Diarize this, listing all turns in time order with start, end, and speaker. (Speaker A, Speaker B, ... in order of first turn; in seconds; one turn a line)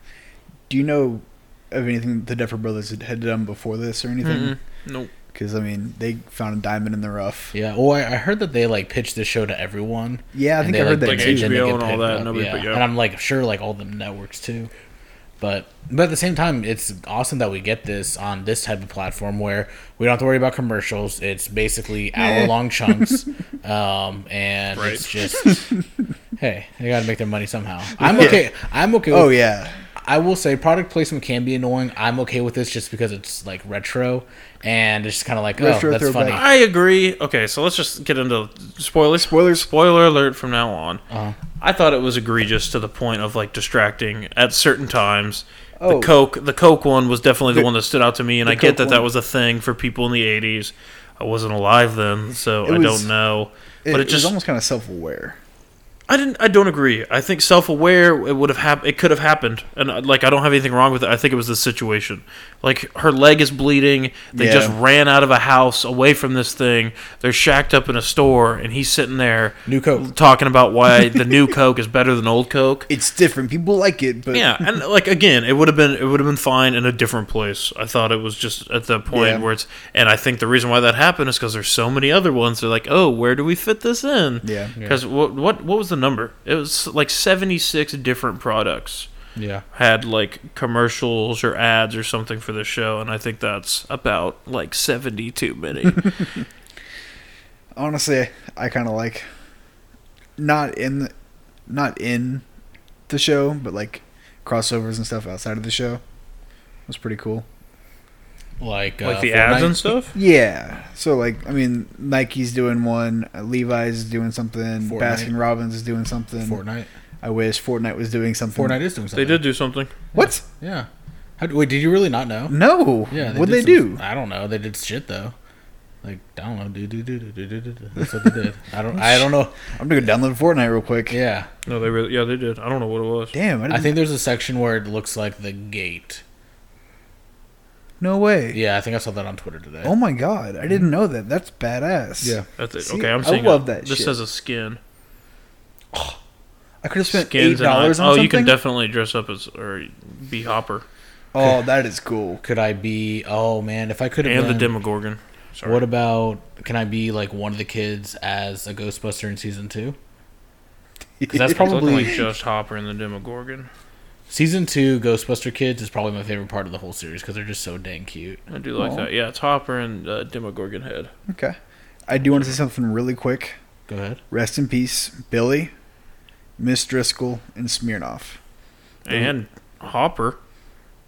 Speaker A: 0.7-4.5
Speaker B: 4.2-5.1
Speaker A: 5.3-7.5
Speaker C: 7.5-14.7
Speaker A: 10.3-11.7
Speaker B: 11.0-12.8
Speaker C: 15.4-25.7
Speaker A: 22.2-22.5
Speaker B: 24.8-25.1
Speaker C: 26.4-29.4
Speaker A: 28.0-28.4
Speaker A: 29.1-29.8
Speaker C: 30.0-36.4
Speaker A: 35.6-36.4
Speaker B: 36.3-41.0
Speaker A: 39.2-39.7
Speaker C: 41.1-41.4
Speaker B: 41.6-54.3
Speaker A: 45.8-46.1
Speaker A: 48.5-49.0
Speaker A: 52.6-53.1
Speaker A: 53.8-55.4
Speaker B: 56.1-72.9
Speaker A: 64.3-64.8
Speaker C: 69.7-70.1
Speaker A: 72.9-74.6
Speaker B: 74.3-89.1
Speaker A: 79.1-79.5
Speaker A: 84.4-84.7
Speaker C: 89.3-89.6
Speaker B: 89.7-96.2
Speaker A: 97.7-99.2
Speaker A: 100.4-101.1
Speaker A: 101.7-102.4
Speaker A: 103.1-106.0
Speaker A: 106.9-107.5
Speaker C: 108.6-109.8
Speaker B: 109.0-110.2
Speaker A: 110.1-116.6
Speaker C: 114.8-115.3
Speaker C: 116.4-116.9
Speaker A: 117.2-118.8
Speaker C: 118.5-119.4
Speaker B: 119.1-119.9
Speaker A: 120.1-120.4
Speaker C: 120.1-120.9
Speaker C: 121.4-122.6
Speaker A: 122.5-124.0
Speaker C: 123.1-125.3
Speaker C: 126.0-129.5
Speaker A: 128.9-131.2
Speaker C: 131.1-131.5
Speaker B: 131.7-133.3
Speaker A: 133.3-133.9
Speaker C: 133.7-136.2
Speaker A: 138.0-138.6
Speaker C: 138.5-139.9
Speaker A: 139.8-144.2
Speaker B: 142.6-144.8
Speaker A: 146.8-148.6
Speaker B: 147.1-150.8
Speaker A: 151.3-152.4
Speaker C: 152.4-154.7
Speaker B: 154.2-155.8
Speaker C: 155.6-159.9
Speaker A: 161.2-162.1
Speaker C: 161.3-162.2
Speaker B: 161.5-163.7
Speaker C: 164.3-168.4
Speaker B: 168.5-171.1
Speaker A: 168.8-169.1
Speaker A: 171.3-173.6
Speaker C: 173.9-174.2
Speaker A: 174.3-175.7
Speaker A: 176.6-178.4
Speaker B: 179.1-180.4